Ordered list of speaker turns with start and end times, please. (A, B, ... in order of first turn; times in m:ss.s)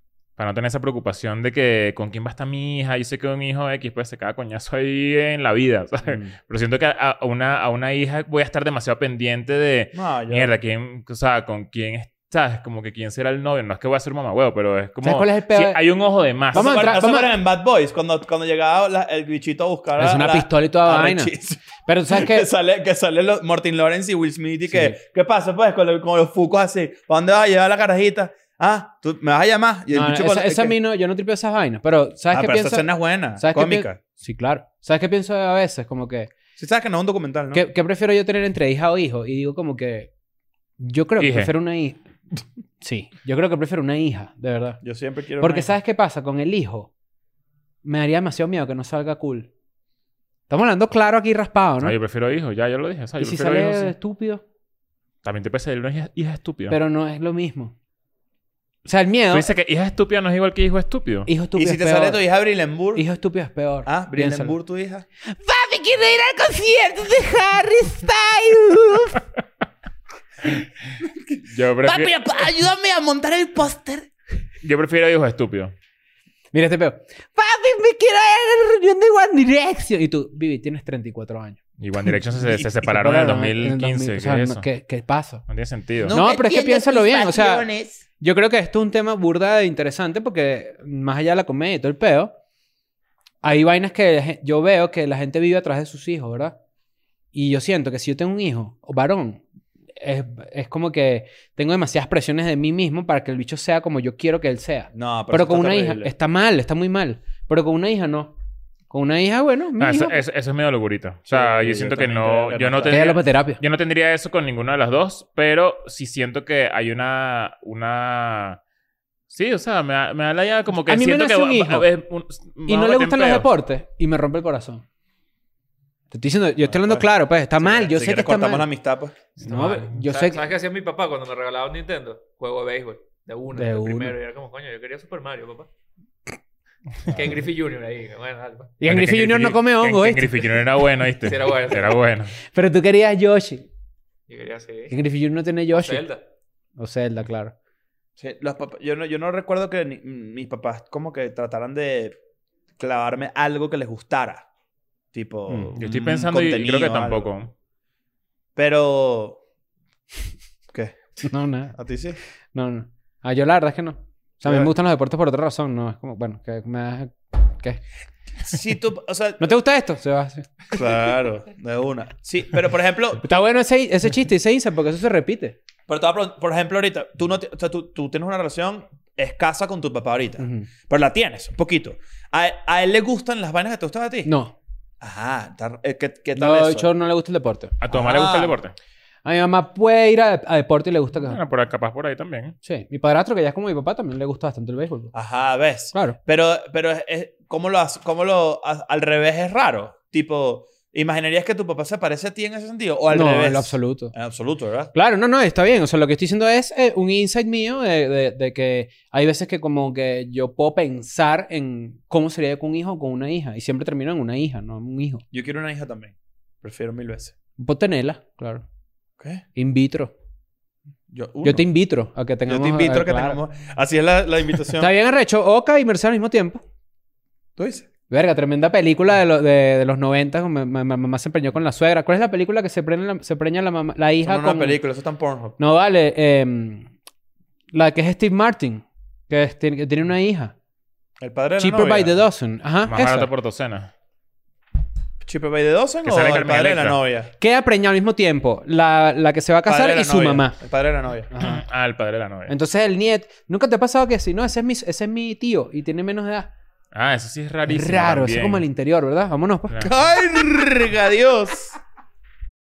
0:00.4-0:16.9 A
0:06.0-0:06.3 B
0:09.9-0:10.5 C
0:15.0-0:15.8 B
0:16.5-0:17.4 B
0:16.5-0:30.8 C
0:20.0-0:22.5 B
0:24.7-0:25.0 B
0:29.9-0:36.3 B
0:32.3-0:34.0 C
0:36.6-0:37.6 C
0:37.5-0:40.1 B
0:40.8-0:42.0 B
0:41.2-0:41.5 A
0:42.8-0:44.8 B
0:44.8-0:45.7 C
0:45.4-0:46.9 B
0:47.8-0:49.5 B
0:50.5-0:51.9 B
0:51.8-0:53.9 A
0:53.2-0:54.4 B
0:55.2-0:56.8 A
0:56.7-0:57.7 B
0:58.8-0:59.5 B
0:59.3-1:01.3 A
1:01.3-1:02.2 B
1:01.6-1:03.0 C
1:02.9-1:04.5 B
1:03.8-1:05.0 C
1:05.2-1:09.2 B
1:10.4-1:10.7 A
1:11.3-1:14.1 C
1:11.4-1:12.2 A
1:14.6-1:15.7 A
1:16.5-1:25.4 B
1:21.8-1:24.6 A
1:25.5-1:26.1 A
1:26.0-1:28.0 C
1:26.1-1:27.6 B
1:28.2-1:32.3 B
1:33.4-1:36.6 B
1:37.3-1:39.4 B
1:40.0-1:48.3 B
1:44.9-1:46.1 C
1:48.9-1:50.2 B
1:49.8-1:58.6 A
1:51.3-1:53.1 C
1:52.8-1:53.6 B
1:59.3-2:03.5 A
2:00.8-2:01.9 B
2:02.6-2:04.8 B
2:06.1-2:08.7 B
2:06.6-2:07.0 C
2:07.6-2:09.2 C
2:09.4-2:10.4 B
2:09.4-2:15.7 D
2:13.5-2:14.1 B
2:17.0-2:18.7 D
2:18.8-2:20.6 B
2:18.8-2:22.4 A
2:21.2-2:22.0 D
2:22.4-2:23.7 B
2:24.3-2:24.9 D
2:24.9-2:26.0 B
2:25.7-2:26.2 D
2:26.8-2:27.5 B
2:28.2-2:32.1 C
2:32.8-2:34.4 C
2:35.1-2:37.3 C
2:35.5-2:36.1 B
2:35.8-2:37.5 A
2:38.6-2:39.4 C
2:40.7-2:41.2 C
2:41.2-2:41.7 B
2:41.8-2:42.2 C
2:42.5-2:47.8 B
2:44.4-2:44.7 C
2:48.4-2:49.4 C
2:49.4-2:50.7 B
2:50.7-2:53.2 C
2:53.2-2:55.6 B
2:55.9-3:04.3 C
3:00.4-3:00.7 B
3:04.2-3:04.5 B
3:05.0-3:06.9 C
3:06.4-3:07.8 B
3:07.8-3:08.8 A
3:07.9-3:08.6 C
3:09.2-3:11.4 B
3:11.2-3:12.6 A
3:12.6-3:15.1 B
3:15.1-3:24.9 C
3:23.1-3:24.1 B
3:24.9-3:35.2 B
3:35.3-3:37.3 C
3:37.6-3:38.6 B
3:39.6-3:40.1 B
3:41.1-3:41.6 C
3:41.4-3:43.4 B
3:42.4-3:44.9 C
3:44.8-3:46.6 B
3:47.6-3:47.9 C
3:48.1-3:54.8 B
3:54.2-3:55.6 C
3:55.6-3:56.9 B
3:57.7-4:00.5 B
4:01.2-4:02.1 C
4:01.6-4:03.3 B
4:02.8-4:03.9 A
4:05.2-4:07.3 C
4:06.0-4:07.0 A
4:07.4-4:10.6 B
4:09.6-4:11.3 C
4:11.3-4:11.6 B
4:11.4-4:12.5 A
4:12.5-4:16.5 B
4:16.9-4:18.6 A
4:17.7-4:19.8 B
4:19.8-4:21.8 C